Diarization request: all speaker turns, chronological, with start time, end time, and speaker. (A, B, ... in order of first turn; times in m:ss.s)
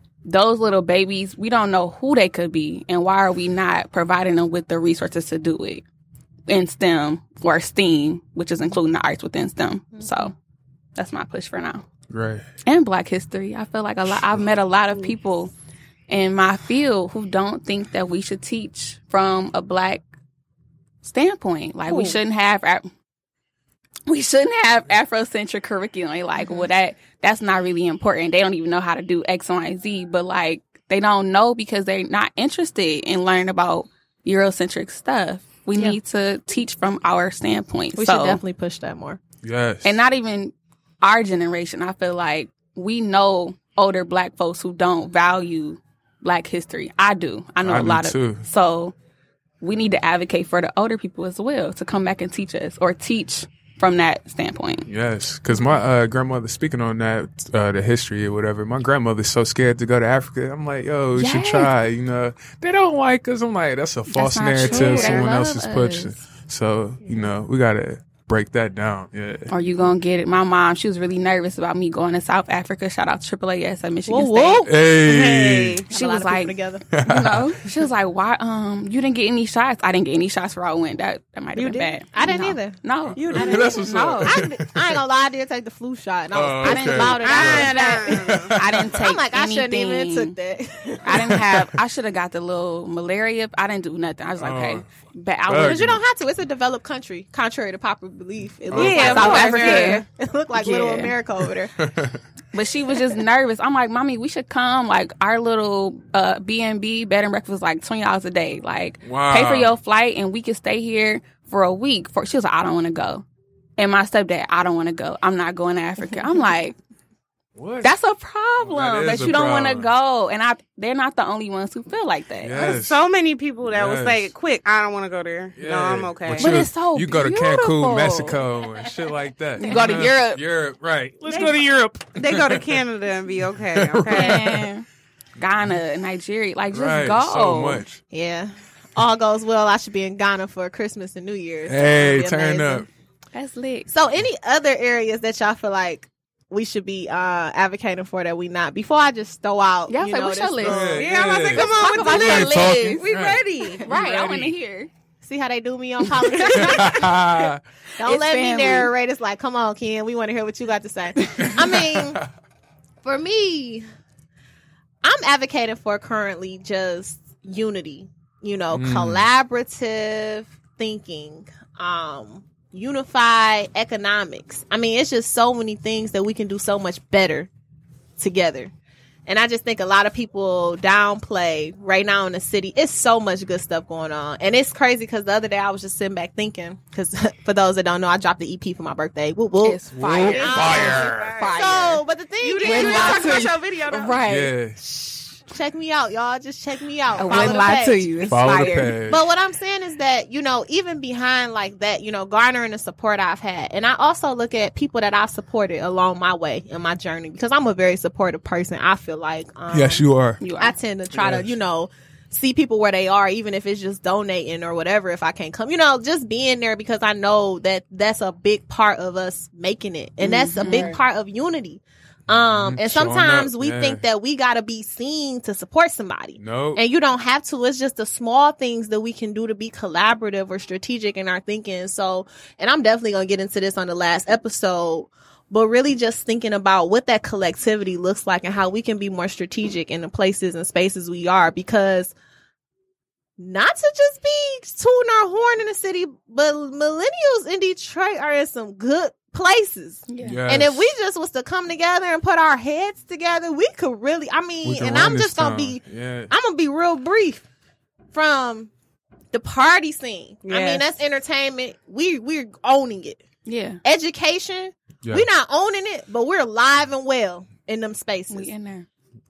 0:00.2-0:05.8 A
0:06.5-0:10.3 A
0:11.0-0:11.8 A
0:12.1-0:12.4 B
0:12.6-0:15.5 A
0:16.1-0:20.0 A
0:21.0-0:22.9 A
0:24.1-0:38.4 A
0:38.0-0:39.2 C
0:39.4-0:39.9 B
0:39.8-0:48.9 A
0:47.6-0:48.4 B
0:49.6-0:54.9 A
0:54.8-1:09.5 B
1:01.1-1:01.7 A
1:04.1-1:06.2 A
1:04.7-1:05.2 D
1:09.5-1:14.7 A
1:14.1-1:14.7 C
1:14.6-1:15.8 B
1:15.0-1:15.8 D
1:15.9-1:16.8 C
1:15.9-1:24.4 A
1:16.9-1:17.5 B
1:21.6-1:21.9 D
1:22.1-1:22.8 C
1:23.0-1:25.0 B
1:23.2-1:23.8 D
1:23.3-1:31.4 C
1:26.3-1:28.9 B
1:26.6-1:30.3 A
1:27.2-1:28.5 D
1:31.0-1:35.9 A
1:31.1-1:31.6 B
1:34.4-1:34.8 B
1:35.5-1:36.0 B
1:35.5-1:41.7 C
1:38.7-1:39.4 B
1:38.7-1:40.0 D
1:39.0-1:40.0 A
1:40.5-1:41.1 A
1:41.8-1:42.2 B
1:42.5-1:53.2 A
1:49.0-1:49.7 B
1:53.8-1:56.8 A
1:57.5-1:57.9 B
1:57.8-2:02.8 A
1:58.6-1:59.9 B
2:02.4-2:03.0 B
2:02.6-2:06.6 D
2:03.7-2:04.3 B
2:05.6-2:12.8 B
2:06.4-2:08.4 A
2:09.6-2:10.4 A
2:11.2-2:14.4 D
2:13.7-2:14.7 B
2:14.0-2:14.8 A
2:15.4-2:17.8 A
2:16.7-2:18.0 B
2:18.1-2:22.9 C
2:21.6-2:22.9 B
2:23.3-2:23.9 A
2:23.9-2:32.6 C
2:29.9-2:31.0 A
2:30.6-2:33.4 B
2:30.6-2:34.5 D
2:31.5-2:33.0 A
2:33.8-2:34.9 A
2:35.2-2:42.2 C
2:36.0-2:37.0 A
2:36.5-2:37.6 B
2:38.0-2:38.9 A
2:41.4-2:42.2 B
2:43.0-2:43.8 C
2:45.0-2:57.5 C
2:48.7-2:49.2 B
2:58.2-2:58.7 C
2:59.2-3:13.5 C
3:09.6-3:12.0 A
3:10.0-3:11.3 B
3:10.2-3:11.8 D
3:12.4-3:14.2 D
3:12.6-3:14.5 A
3:14.2-3:14.8 B
3:14.8-4:02.1 C
3:17.2-3:19.0 A
3:17.3-3:17.6 D
3:18.2-3:19.2 B
3:29.7-3:30.4 B
3:30.4-3:30.8 A
3:31.1-3:31.5 B
3:40.2-3:40.9 A
3:40.6-3:41.0 D
3:42.3-3:44.0 B
3:46.4-3:46.8 B
4:03.4-4:17.4 C
4:10.1-4:10.4 A
4:10.2-4:10.9 B
4:14.6-4:16.3 B
4:18.1-4:18.7 C
4:19.3-4:23.2 C
4:20.4-4:20.9 D
4:23.4-4:23.8 A
4:23.8-4:28.5 C
4:28.3-4:28.9 A